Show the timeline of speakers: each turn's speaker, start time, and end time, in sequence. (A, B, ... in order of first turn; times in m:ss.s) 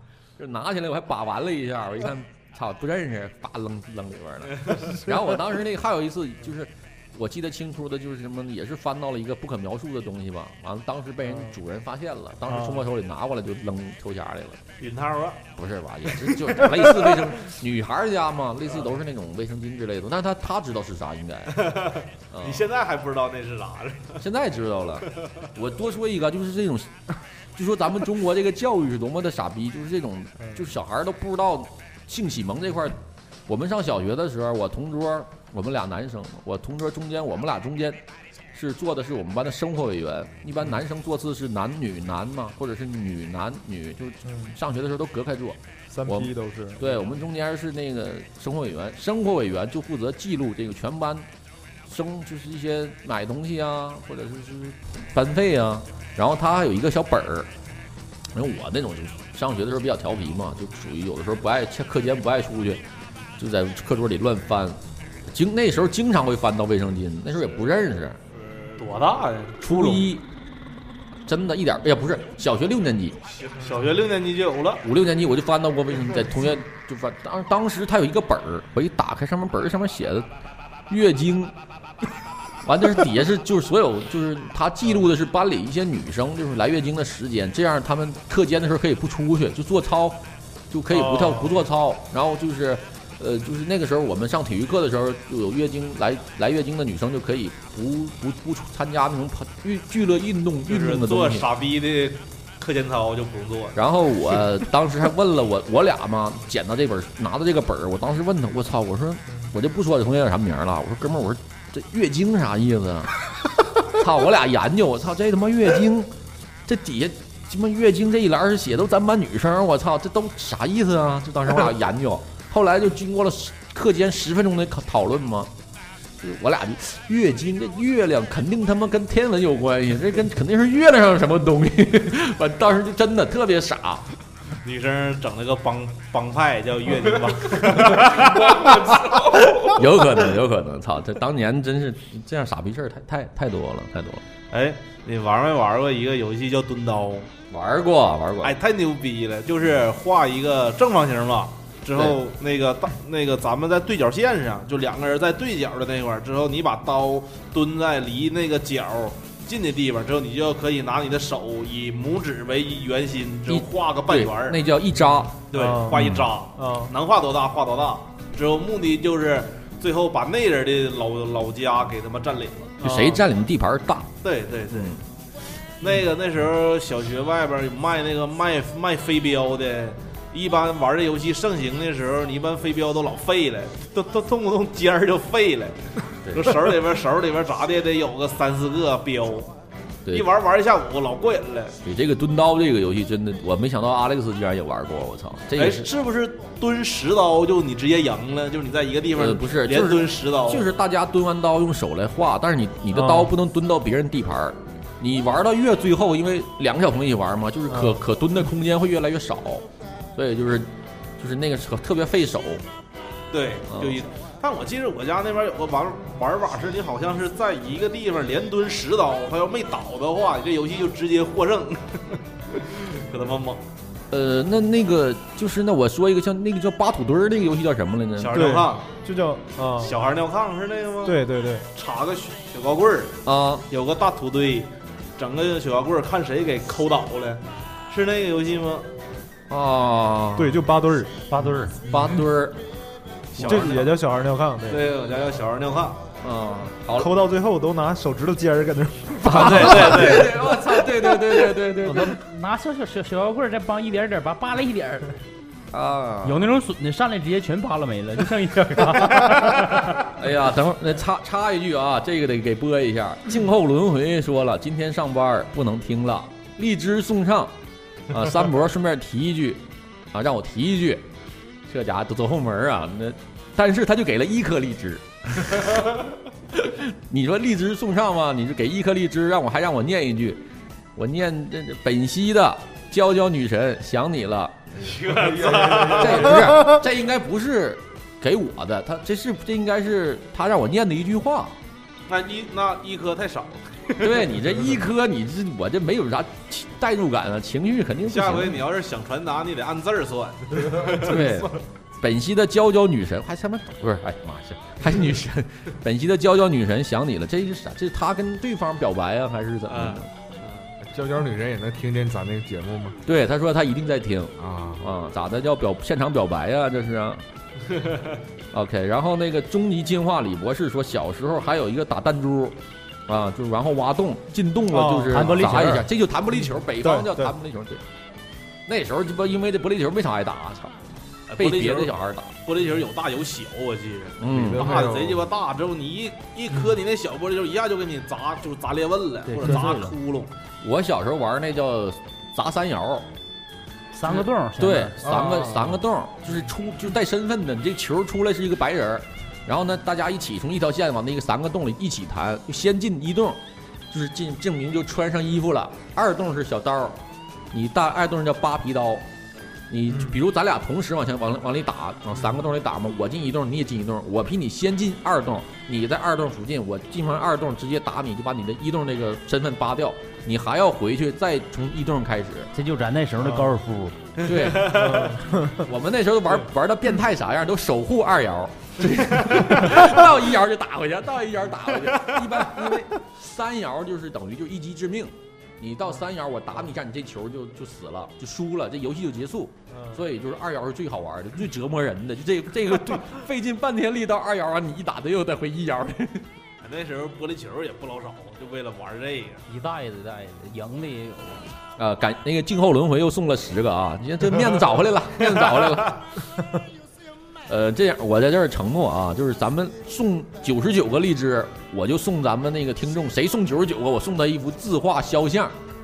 0:00.4-0:14.6 A
0:12.5-0:12.8 B
0:14.8-0:15.4 C
0:15.6-0:22.7 A
0:16.2-0:17.1 C
0:21.5-0:24.2 C
0:24.2-0:27.0 A
0:27.5-0:51.3 A
0:44.2-0:44.6 B
0:45.9-0:47.1 B
0:51.8-0:57.5 A
0:58.3-1:02.8 A
1:03.4-1:08.2 A
1:08.5-1:10.0 C
1:09.6-1:10.2 A
1:11.2-1:13.2 A
1:13.4-1:14.8 C
1:14.8-1:20.3 A
1:20.9-1:21.5 A
1:22.6-1:41.5 A
1:40.6-1:43.8 C
1:43.7-1:53.2 A
1:53.8-1:56.1 A
1:56.6-2:05.5 A
2:06.2-2:14.1 A
2:14.6-2:19.6 C
2:17.9-2:24.2 A
2:24.5-2:27.3 C
2:27.5-2:28.6 A
2:28.4-2:44.6 C
2:43.5-2:46.3 A
2:45.5-2:52.9 C
2:45.5-2:46.9 B
2:52.8-2:53.2 B
2:52.8-2:54.1 A
2:54.2-2:55.0 C
2:54.7-2:55.0 A
2:55.8-3:09.5 C
3:06.2-3:06.6 A
3:10.1-3:11.8 C
3:11.8-3:15.9 A
3:15.6-3:20.7 C
3:19.1-3:32.6 A
3:22.9-3:23.3 B
3:27.7-3:28.0 B
3:33.3-3:43.6 C
3:33.7-3:34.0 A
3:44.1-3:48.5 A
3:48.2-3:48.8 C
3:48.3-3:50.0 B
3:49.8-3:58.9 C
3:51.0-3:51.7 B
3:53.2-3:53.6 A
3:59.5-4:00.6 A
4:00.4-4:01.5 B
4:01.3-4:02.6 A
4:03.3-4:03.9 A
4:03.3-4:03.9 C
4:03.4-4:04.9 B
4:04.7-4:06.0 C
4:06.2-4:07.1 A
4:07.0-4:10.4 B
4:09.2-4:12.2 A
4:09.2-4:10.3 C
4:11.8-4:15.2 D
4:15.7-4:16.5 A
4:16.2-4:20.0 D
4:20.0-4:27.5 A
4:28.1-4:31.1 A
4:31.7-4:40.4 A
4:41.0-4:44.7 A
4:44.8-4:46.6 C
4:45.6-4:45.9 E
4:45.8-4:51.6 A
4:52.1-4:54.3 C
4:54.0-4:58.6 A
4:58.0-5:01.5 C
5:01.0-5:10.1 A
5:09.7-5:10.7 C
5:10.8-5:13.0 E
5:13.0-5:17.2 A
5:14.4-5:14.9 E
5:17.8-5:18.1 C
5:18.5-5:27.8 A
5:24.7-5:25.5 B
5:25.1-5:25.9 D
5:26.3-5:27.3 B
5:28.6-5:30.8 A
5:31.3-5:40.3 C
5:31.4-5:32.4 A
5:34.2-5:34.8 A
5:34.3-5:35.2 E
5:39.2-5:39.9 D
5:40.6-5:43.1 A
5:43.9-5:45.6 D
5:44.0-5:57.0 A
5:57.5-5:59.0 A
5:59.7-6:12.5 A
5:59.9-6:00.2 B
6:12.5-6:14.0 D
6:13.2-6:13.6 B
6:14.2-6:15.2 C
6:14.2-6:36.3 A
6:14.6-6:15.7 B
6:21.8-6:22.3 C
6:29.7-6:30.0 B
6:36.6-6:39.4 C
6:39.5-6:41.5 D
6:41.8-6:46.0 A
6:45.5-6:45.9 C
6:47.5-6:55.5 A